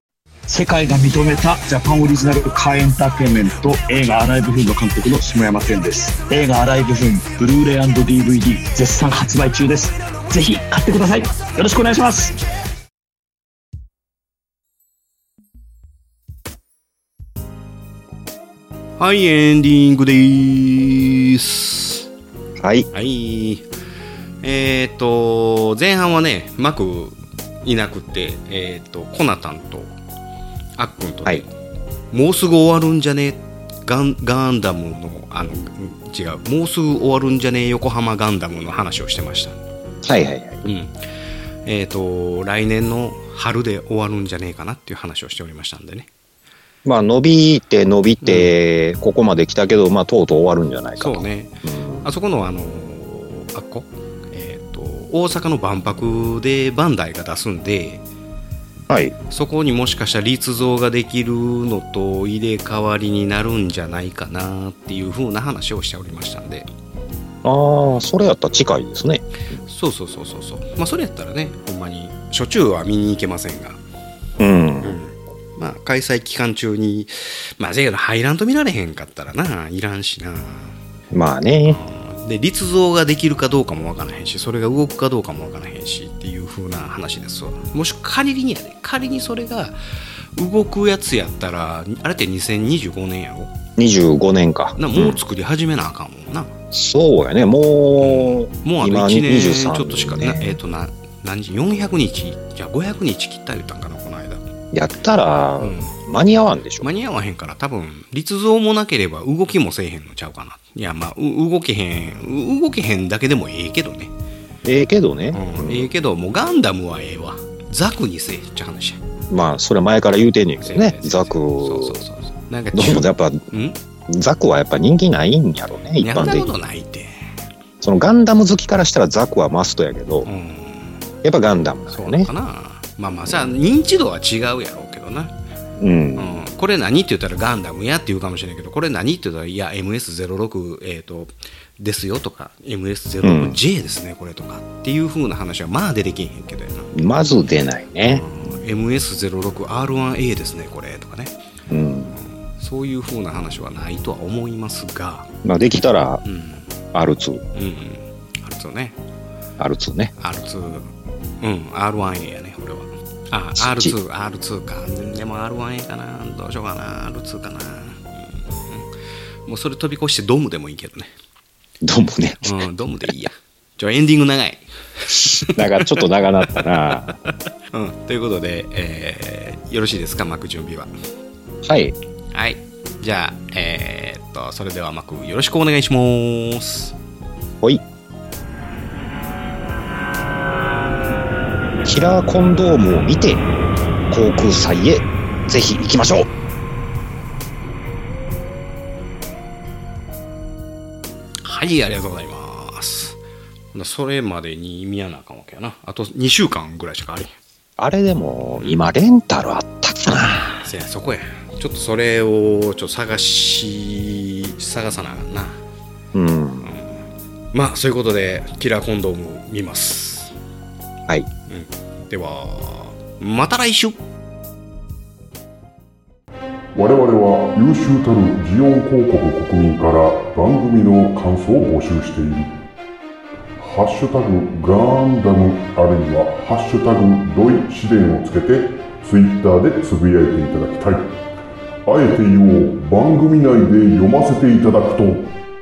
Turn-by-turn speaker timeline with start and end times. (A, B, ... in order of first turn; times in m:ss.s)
0:00.5-0:12.4 A
0:19.0-0:22.1 B
0:22.6-0:22.9 C
0:22.9-0:23.7 B
0:24.4-0:29.9 B
0:30.8-0:31.5 B
0:32.1-0:39.6 B
0:40.0-0:40.6 C
0:40.6-0:41.0 B
0:41.6-0:46.1 B
0:46.8-0:52.1 C
0:48.2-0:48.6 B
0:51.0-0:58.0 B
0:58.9-0:59.2 C
0:59.3-1:06.7 B
1:07.4-1:09.3 C
1:09.7-1:13.8 B
1:14.4-1:15.0 C
1:14.8-1:20.7 B
1:21.1-1:21.8 C
1:21.7-1:29.8 B
1:30.4-1:33.5 B
1:33.8-1:35.2 C
1:34.8-1:36.5 B
1:36.7-1:40.6 C
1:38.0-1:44.4 B
1:44.7-1:46.8 C
1:45.6-1:45.9 B
1:46.8-1:54.1 B
1:54.6-1:55.9 C
1:55.3-1:59.0 B
1:59.3-2:02.0 C
2:00.6-2:03.8 B
2:02.7-2:03.4 C
2:04.1-2:06.5 C
2:06.0-2:07.3 B
2:07.8-2:10.3 C
2:10.3-2:11.0 B
2:11.2-2:12.3 C
2:11.9-2:15.3 B
2:15.8-2:16.4 C
2:16.2-2:27.0 B
2:23.2-2:23.6 C
2:26.9-2:28.2 C
2:28.1-2:31.4 B
2:31.7-2:32.1 C
2:32.1-2:35.3 B
2:35.4-2:36.2 C
2:36.2-2:36.7 B
2:36.9-2:37.4 C
2:37.6-2:39.0 B
2:39.6-2:40.1 C
2:40.2-2:40.9 B
2:41.4-2:48.9 B
2:43.6-2:44.0 C
2:49.5-2:51.1 B
2:51.8-2:52.6 C
2:52.4-3:00.9 B
2:55.1-2:57.2 C
3:01.6-3:02.0 C
3:02.3-3:07.0 B
3:11.8-3:13.5 C
3:14.1-3:16.3 C
3:21.4-3:23.2 B
3:23.7-3:27.3 B
3:27.8-3:30.6 C
3:28.5-3:28.8 B
3:30.6-3:35.6 B
3:36.1-3:36.8 C
3:36.6-3:40.4 B
3:41.5-3:44.0 B
3:46.8-3:52.6 D
3:53.6-4:01.2 D
4:01.9-4:05.3 D